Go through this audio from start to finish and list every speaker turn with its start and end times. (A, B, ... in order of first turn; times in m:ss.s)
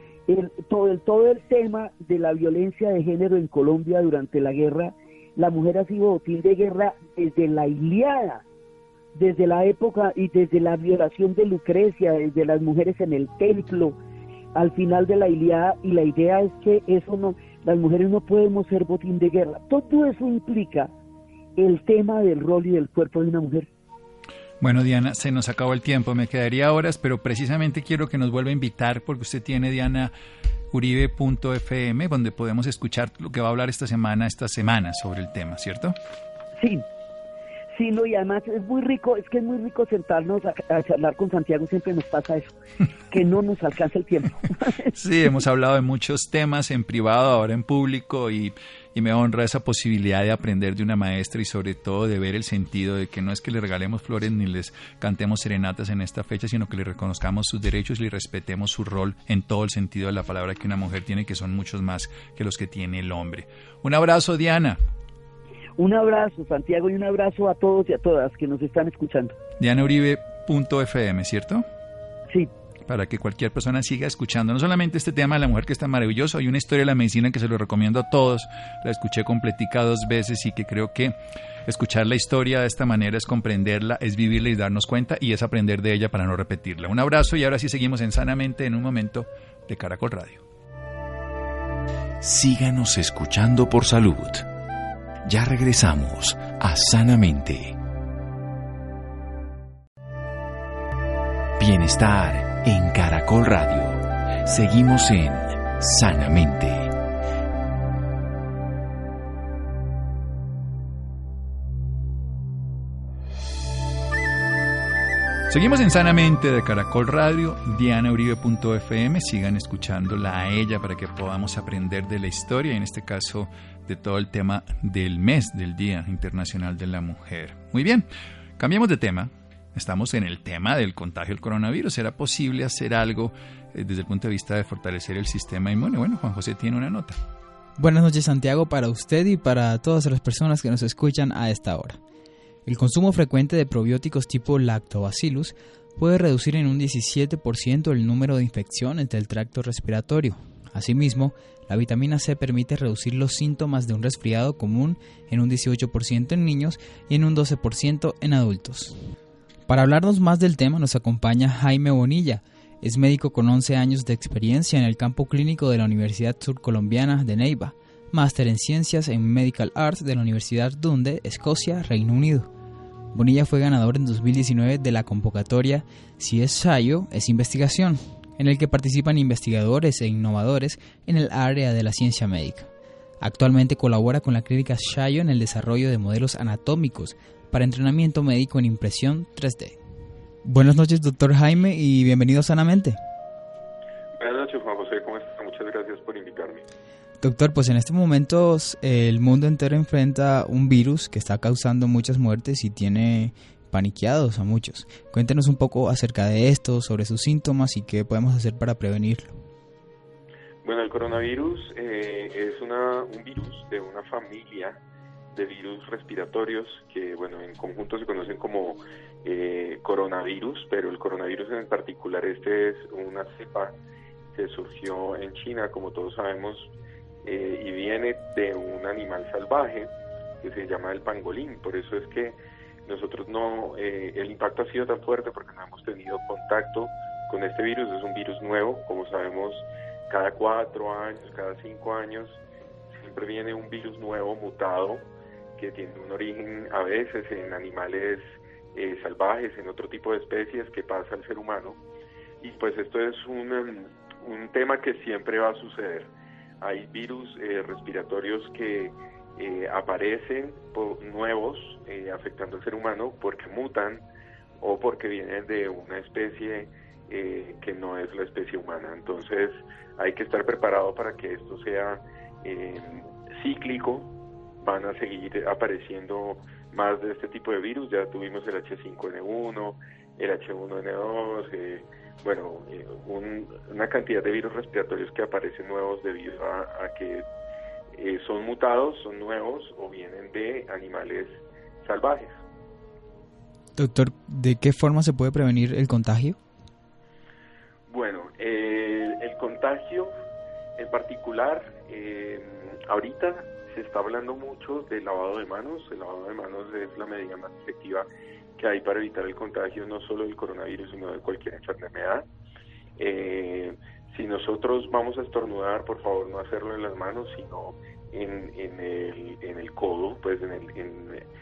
0:00.3-0:08.4 A
0:09.1-0:14.0 A
0:14.6-0:20.9 A
0:21.6-0:23.7 A
0:24.6-0:30.1 B
0:30.7-0:36.0 B
0:36.6-0:36.8 A
0:37.7-0:42.6 A
0:43.1-0:45.0 A
0:44.9-1:04.8 B
1:05.8-1:09.4 A
1:09.6-1:11.6 B
1:12.9-1:21.1 B
1:21.6-1:30.4 B
1:32.2-1:34.5 C
1:35.2-1:37.8 C
1:41.6-1:46.9 C
1:55.5-2:08.1 B
2:08.6-2:17.2 B
2:17.8-2:22.0 D
2:22.6-2:39.0 D
2:39.7-2:52.5 D
2:53.1-3:02.7 D
3:03.2-3:09.8 D
3:10.4-3:13.0 D
3:14.2-3:16.6 E
3:17.2-3:29.4 D
3:30.6-3:34.8 E
3:35.3-3:43.7 E
3:44.3-3:46.7 E
3:47.2-4:02.4 E
4:02.9-4:05.0 E
4:05.6-4:11.8 E
4:12.4-4:24.0 E
4:24.6-4:34.1 E
4:34.6-4:47.2 E
4:47.9-4:52.4 E
4:53.8-4:56.4 D
4:57.9-5:00.1 E
5:00.8-5:08.0 E
5:08.6-5:12.2 E
5:13.0-5:21.2 E